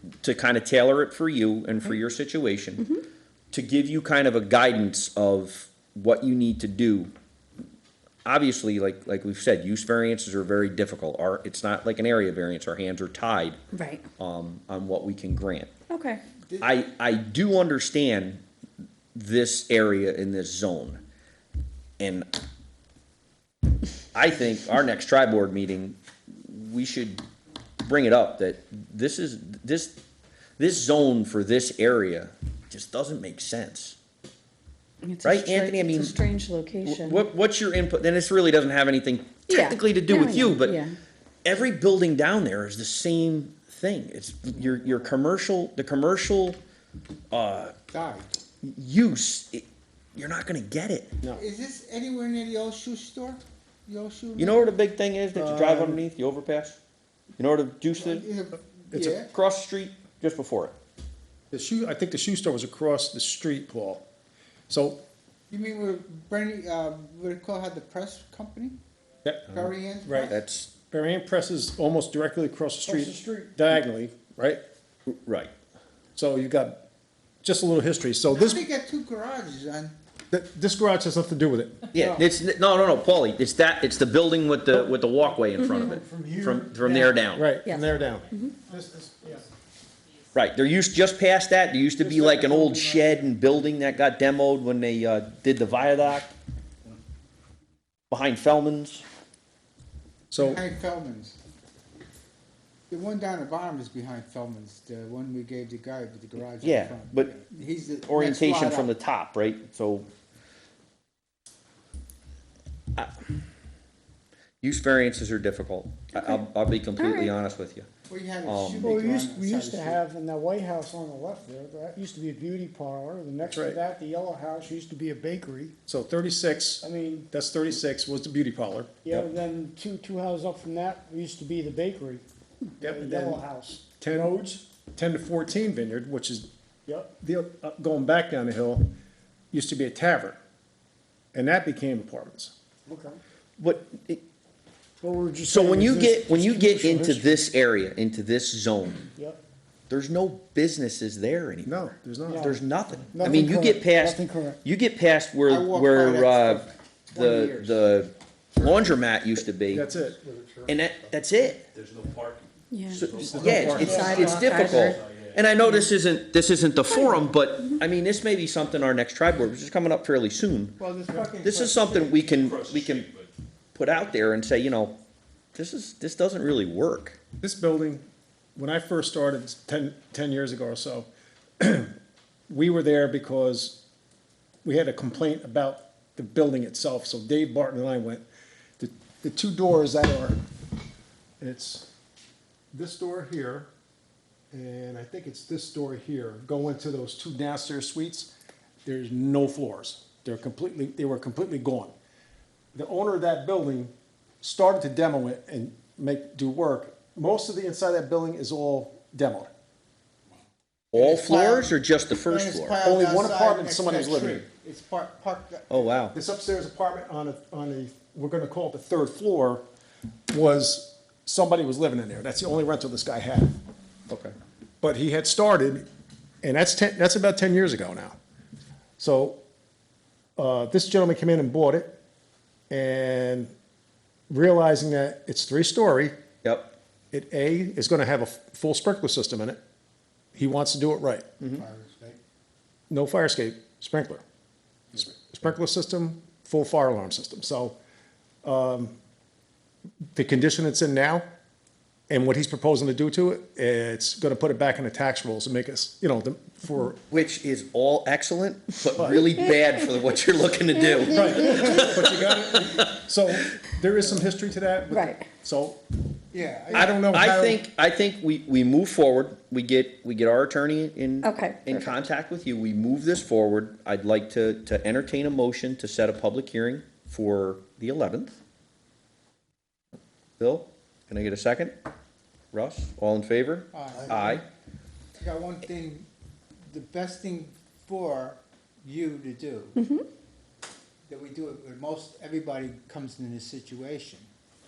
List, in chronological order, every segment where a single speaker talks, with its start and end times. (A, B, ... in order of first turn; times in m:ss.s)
0:00.2-0:02.9 A
0:03.5-0:07.1 A
0:08.2-0:13.6 A
0:13.7-0:14.0 B
0:14.2-0:15.7 A
0:15.9-0:16.2 B
0:16.6-0:18.4 A
0:19.1-0:21.0 A
0:22.0-0:22.3 A
0:24.1-0:27.2 A
0:27.8-0:30.0 A
0:30.6-0:34.0 A
0:35.0-0:37.2 B
0:35.2-0:36.2 A
0:36.8-0:40.8 A
0:39.5-0:40.9 B
0:41.4-0:46.6 A
0:47.3-0:47.7 A
0:47.9-0:48.4 C
0:48.6-0:51.1 A
0:51.3-0:54.7 C
0:54.4-0:56.8 A
0:55.3-0:56.0 D
0:57.4-0:58.2 A
0:57.9-0:59.3 C
0:58.9-1:00.7 A
1:01.5-1:04.0 D
1:04.7-1:05.0 D
1:05.5-1:08.8 C
1:09.2-1:10.3 D
1:09.5-1:10.4 C
1:10.2-1:10.7 A
1:10.9-1:14.6 D
1:12.8-1:13.6 E
1:15.1-1:15.5 A
1:16.2-1:16.8 D
1:17.4-1:18.6 D
1:18.3-1:19.9 C
1:20.3-1:21.9 D
1:21.9-1:27.4 A
1:22.0-1:22.2 C
1:25.8-1:27.1 E
1:27.3-1:29.1 D
1:27.6-1:28.5 B
1:28.7-1:29.4 E
1:30.3-1:36.3 A
1:32.1-1:33.1 E
1:32.1-1:33.2 D
1:38.1-1:39.0 A
1:40.3-1:40.6 D
1:40.4-1:41.4 C
1:42.9-1:48.9 C
1:46.6-1:47.3 A
1:48.1-1:50.1 A
1:54.6-1:57.9 A
1:57.0-1:57.3 B
1:58.1-2:00.0 C
1:58.4-1:58.9 A
1:58.7-2:05.8 E
2:03.5-2:03.8 D
2:05.9-2:09.3 D
2:06.8-2:07.3 E
2:09.0-2:12.2 E
2:12.8-2:14.6 E
2:12.8-2:13.4 D
2:14.0-2:16.4 D
2:16.9-2:17.1 E
2:17.2-2:18.9 D
2:19.5-2:20.4 D
2:21.3-2:22.5 D
2:22.9-2:23.2 E
2:23.6-2:24.2 A
2:25.0-2:27.4 E
2:25.4-2:29.0 A
2:29.1-2:29.4 E
2:29.9-2:31.8 A
2:31.6-2:32.5 D
2:32.3-2:32.6 E
2:32.4-2:39.9 A
2:33.1-2:34.6 E
2:35.5-2:37.9 C
2:38.5-2:38.9 C
2:39.7-2:40.3 D
2:40.7-2:41.7 A
2:41.7-2:45.8 F
2:42.7-2:43.1 B
2:42.9-2:50.8 A
2:43.1-2:44.1 D
2:43.3-2:44.4 E
2:43.8-2:45.0 B
2:44.2-2:44.7 C
2:46.9-2:47.8 B
2:50.8-2:52.2 C
2:51.4-2:53.1 A
2:51.9-2:53.3 F
2:53.7-2:55.0 A
2:55.5-2:57.2 A
2:57.4-2:58.0 D
2:58.6-3:01.1 D
3:01.6-3:01.9 D
3:02.5-3:03.8 D
3:04.6-3:08.2 D
3:08.8-3:10.4 D
3:11.4-3:11.9 D
3:12.7-3:13.7 D
3:14.5-3:18.3 D
3:18.8-3:21.9 D
3:22.7-3:29.5 D
3:30.9-3:32.8 A
3:30.9-3:35.8 C
3:32.8-3:34.4 D
3:35.7-3:36.1 A
3:36.1-3:39.6 D
3:40.3-3:43.6 D
3:44.1-3:44.3 A
3:44.8-3:45.9 D
3:46.4-3:48.2 D
3:49.0-3:49.4 D
3:50.4-3:51.9 D
3:52.7-3:53.5 D
3:54.3-3:56.1 D
3:56.4-3:56.7 A
3:57.1-3:59.6 D
4:00.3-4:01.3 D
4:01.5-4:02.2 C
4:02.9-4:04.2 D
4:04.9-4:07.8 D
4:08.4-4:09.0 D
4:10.1-4:11.2 D
4:12.1-4:17.0 D
4:17.1-4:23.0 A
4:19.0-4:19.2 D
4:21.0-4:21.6 B
4:21.0-4:25.8 D
4:24.9-4:25.2 B
4:26.3-4:26.9 C
4:26.7-4:27.6 D
4:26.7-4:38.4 A
4:31.2-4:32.0 B
4:40.4-4:41.8 A
4:42.5-4:44.4 A
4:43.7-4:44.4 C
4:45.2-4:46.1 C
4:46.7-4:49.8 C
4:49.8-4:50.0 B
4:51.1-4:54.3 C